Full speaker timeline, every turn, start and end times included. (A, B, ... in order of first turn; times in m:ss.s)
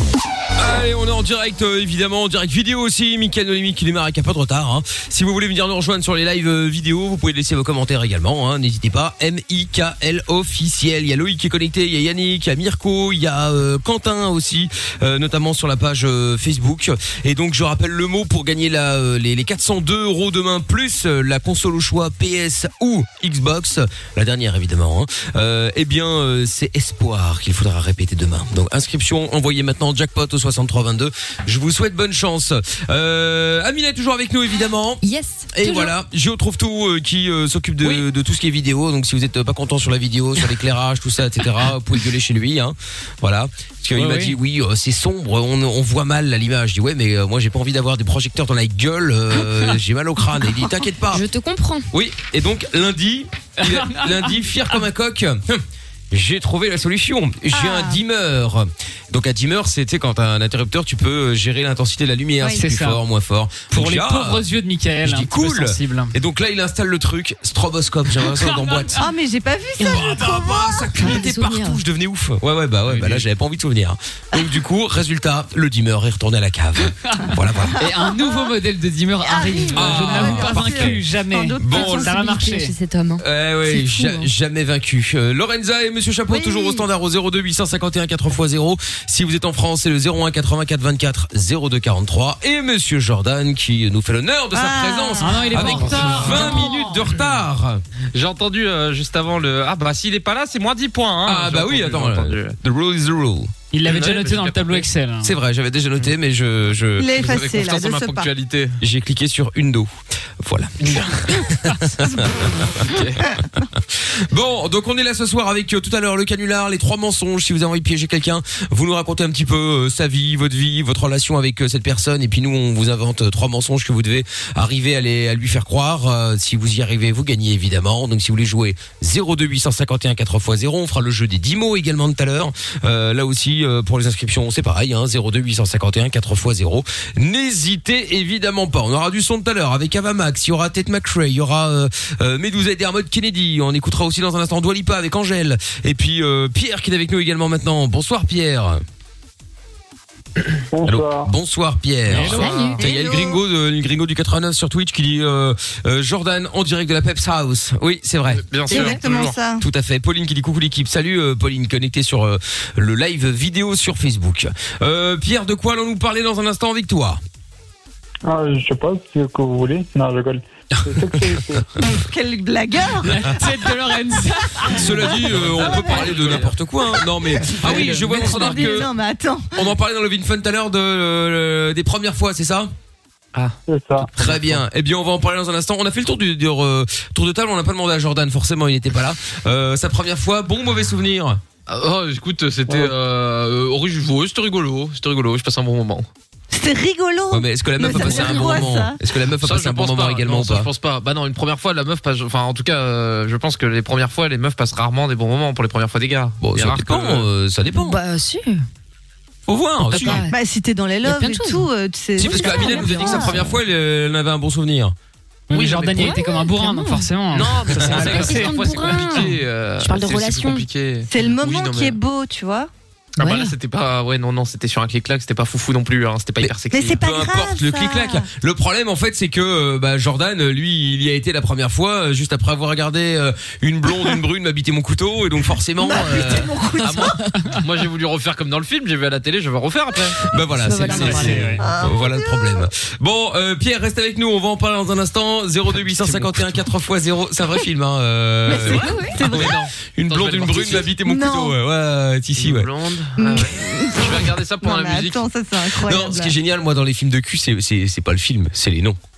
0:00.6-0:51.2 A
0:35.0-0:35.9 B
0:44.0-0:44.4 C
0:51.1-0:51.9 B
0:51.9-1:04.5 A
0:53.6-0:54.2 C
0:57.5-0:58.0 D
1:02.6-1:03.0 C
1:03.7-1:06.1 C
1:05.0-1:09.0 A
1:08.3-1:08.9 C
1:09.0-1:10.9 D
1:09.8-1:10.2 B
1:09.8-1:17.8 A
1:11.0-1:11.8 B
1:12.9-1:13.2 E
1:17.1-1:22.8 C
1:17.7-1:18.5 D
1:19.2-1:22.1 D
1:19.7-1:21.0 A
1:21.6-1:22.1 A
1:21.7-1:24.3 B
1:23.2-1:37.8 A
1:26.3-1:26.8 D
1:34.5-1:36.4 D
1:35.2-1:37.1 C
1:36.0-1:36.4 E
1:38.1-1:42.6 E
1:41.2-1:43.5 A
1:43.7-1:45.3 C
1:43.8-1:44.9 E
1:45.2-1:47.1 A
1:47.0-1:48.3 D
1:47.1-1:48.8 E
1:48.8-1:53.0 A
1:50.8-1:51.2 E
1:52.8-1:53.4 E
1:53.8-2:28.8 A
2:30.7-2:31.3 F
2:30.8-2:39.0 A
2:32.1-2:32.7 C
2:32.2-2:32.8 B
2:32.4-2:32.7 E
2:32.6-2:33.3 D
2:38.3-2:39.4 E
2:38.7-2:39.6 D
2:39.6-2:47.2 A
2:48.3-2:51.8 F
2:50.7-2:51.6 A
2:51.8-2:53.4 D
2:53.0-2:55.2 C
2:54.7-2:58.9 A
2:55.3-2:56.6 E
2:55.6-2:56.1 D
2:57.4-2:58.8 E
2:57.8-2:59.5 D
2:58.1-2:58.4 C
2:59.5-3:02.7 A
3:03.7-3:04.1 F
3:04.0-3:11.4 A
3:04.2-3:04.6 E
3:11.7-3:16.1 E
3:16.5-3:19.0 D
3:17.3-3:20.7 A
3:17.8-3:18.6 B
3:19.4-3:27.3 E
3:26.4-3:28.0 A
3:27.7-3:28.6 B
3:29.5-3:30.2 A
3:29.9-3:30.4 B
3:30.3-3:33.4 D
3:31.0-3:31.7 B
3:32.2-3:35.0 A
3:32.3-3:33.2 C
3:32.5-3:33.1 B
3:35.5-3:39.1 C
3:35.5-3:36.2 E
3:36.0-3:37.1 B
3:37.4-3:42.0 E
3:37.7-3:38.3 A
3:38.0-3:40.7 B
3:41.1-3:42.7 D
3:43.2-3:43.5 B
3:43.2-3:47.0 E
3:46.4-3:56.5 A
3:46.7-3:48.3 D
3:55.8-3:57.3 D
3:56.8-4:00.2 E
4:00.2-4:12.7 A
4:00.6-4:01.4 B
4:01.0-4:01.7 C
4:01.0-4:02.6 D
4:05.7-4:06.6 E
4:08.5-4:09.7 D
4:08.5-4:10.9 E
4:11.0-4:11.6 D
4:12.4-4:15.2 E
4:13.2-4:16.3 D
4:15.8-4:19.0 A